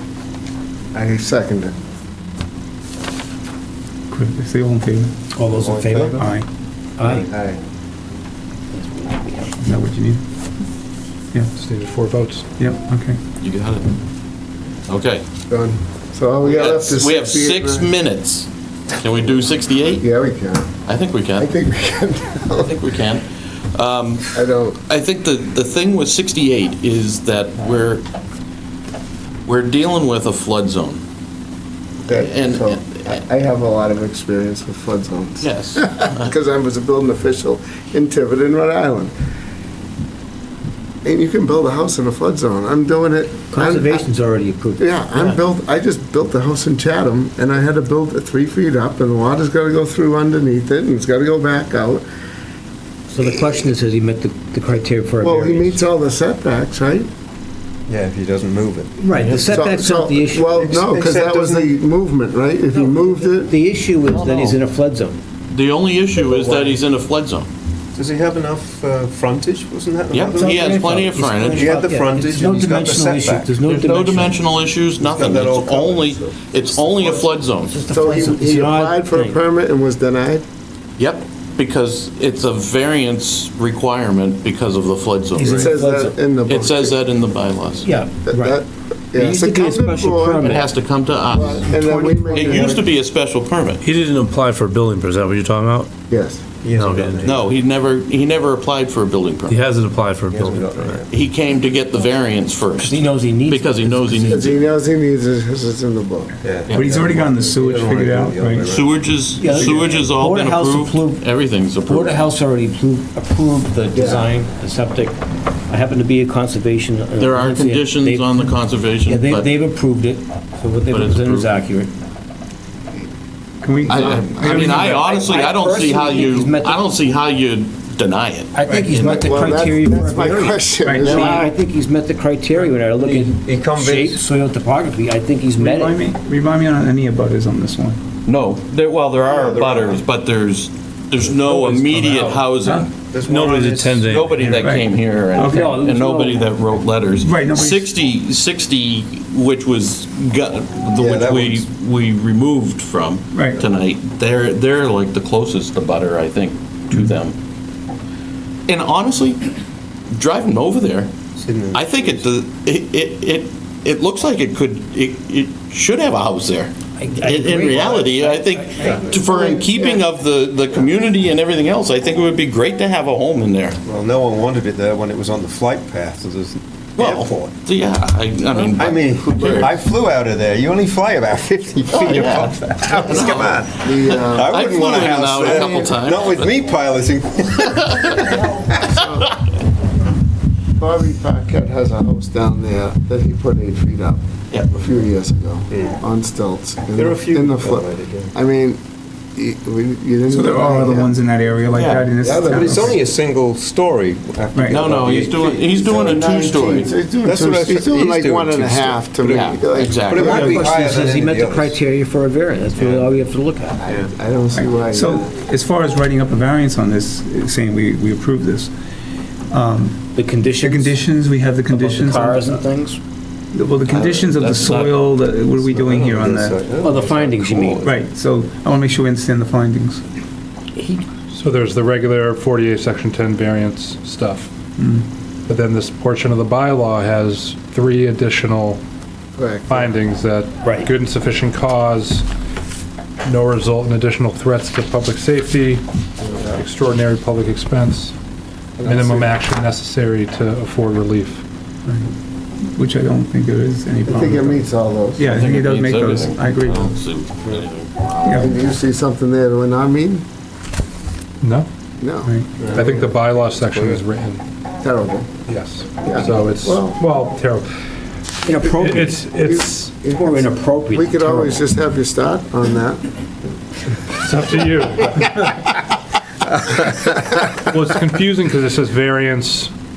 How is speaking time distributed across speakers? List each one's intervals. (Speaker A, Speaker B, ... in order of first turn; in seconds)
Speaker A: 0.9-1.7, 15.5-17.9, 20.0-20.7, 21.4-22.8, 24.3-24.8, 32.0-39.1, 41.0-44.1, 44.8-52.0, 55.2-57.1, 59.3-63.5, 77.9-80.4, 85.5-87.0, 88.2-90.7, 91.3-92.9, 96.1-96.5, 104.2-106.4, 113.9-114.3, 123.8-125.1, 128.9-131.5, 168.8-170.0, 183.8-185.9, 188.8-189.3, 190.8-194.2, 194.7-198.8, 199.4-201.1, 202.2-203.0, 205.7-210.7, 213.8-215.2, 239.3-239.9, 246.2-246.6, 248.8-249.4, 254.1-255.3, 258.3-260.2, 262.0-263.0, 264.8-265.3, 266.0-267.0, 269.4-273.0
Speaker B: 4.1-5.1, 6.0-6.5, 9.6-10.2, 12.6-13.2, 106.7-108.7, 123.6-125.0, 130.8-131.5, 135.6-138.0, 144.4-145.8, 147.2-147.9, 153.3-153.6, 200.3-203.0, 204.5-204.9, 210.2-210.7, 214.6-218.7, 219.5-220.1, 220.6-222.6, 223.5-226.6, 227.8-230.0, 234.8-235.1, 251.9-252.1, 252.7-257.0, 258.2-258.5, 262.2-262.5
Speaker C: 5.3-6.3, 7.0-7.3, 8.7-9.6, 43.5-45.4, 53.1-55.8, 59.0-60.6, 62.7-65.2, 70.3-74.5, 77.0-79.4, 85.4-86.2, 87.8-88.6, 89.2-90.7, 91.4-92.8, 102.8-104.5, 109.4-111.2, 111.8-115.2, 115.7-121.9, 124.9-126.8, 128.5-136.0, 145.4-146.5, 167.0-169.1, 210.2-213.8, 220.2-221.0, 221.7-223.0, 226.8-227.9, 230.8-231.1, 240.6-240.9, 268.4-269.3, 270.1-271.6
Speaker D: 5.5-6.2, 7.0-7.6, 57.9-59.3, 60.5-61.8, 64.2-64.6, 66.2-66.8, 68.0-70.8, 71.4-73.6, 75.0-77.1, 96.6-97.5, 100.3-101.1, 106.4-109.0, 109.5-109.8, 124.6-124.9, 132.7-134.2, 139.2-140.0, 141.4-142.4, 142.9-144.1, 151.0-151.7, 161.4-162.2, 173.8-177.5, 178.7-188.7, 195.7-196.0, 196.9-198.3, 202.3-206.1, 207.2-211.8, 212.8-213.1, 225.5-227.9, 262.6-264.0
Speaker E: 11.6-12.4, 231.3-234.5, 235.5-238.8, 239.7-242.3, 243.2-245.8, 246.5-248.1, 248.8-251.4, 261.4-261.7, 262.7-264.4, 265.5-267.7, 268.6-269.9, 274.2-275.8, 276.8-279.7
Speaker F: 13.4-13.9, 14.9-15.2, 16.4-20.1, 20.9-21.5, 22.6-28.0, 29.5-31.0, 32.1-33.2, 35.4-36.3, 65.5-67.5, 70.1-71.7, 73.6-77.8, 81.0-85.8, 86.5-87.9, 90.4-91.7, 92.3-93.8, 96.7-99.7, 101.1-104.6, 108.7-112.2, 117.2-119.5, 120.9-121.5, 124.4-129.4, 138.3-142.9, 143.9-157.4, 158.7-159.4, 160.1-161.1, 161.7-173.8, 177.0-179.8, 181.9-186.6, 187.7-188.4, 194.5-194.8, 201.7-202.1, 204.7-206.9, 209.2-210.3, 223.9-225.0, 255.2-258.8
Speaker G: 93.8-95.9, 99.5-100.9, 143.3-144.3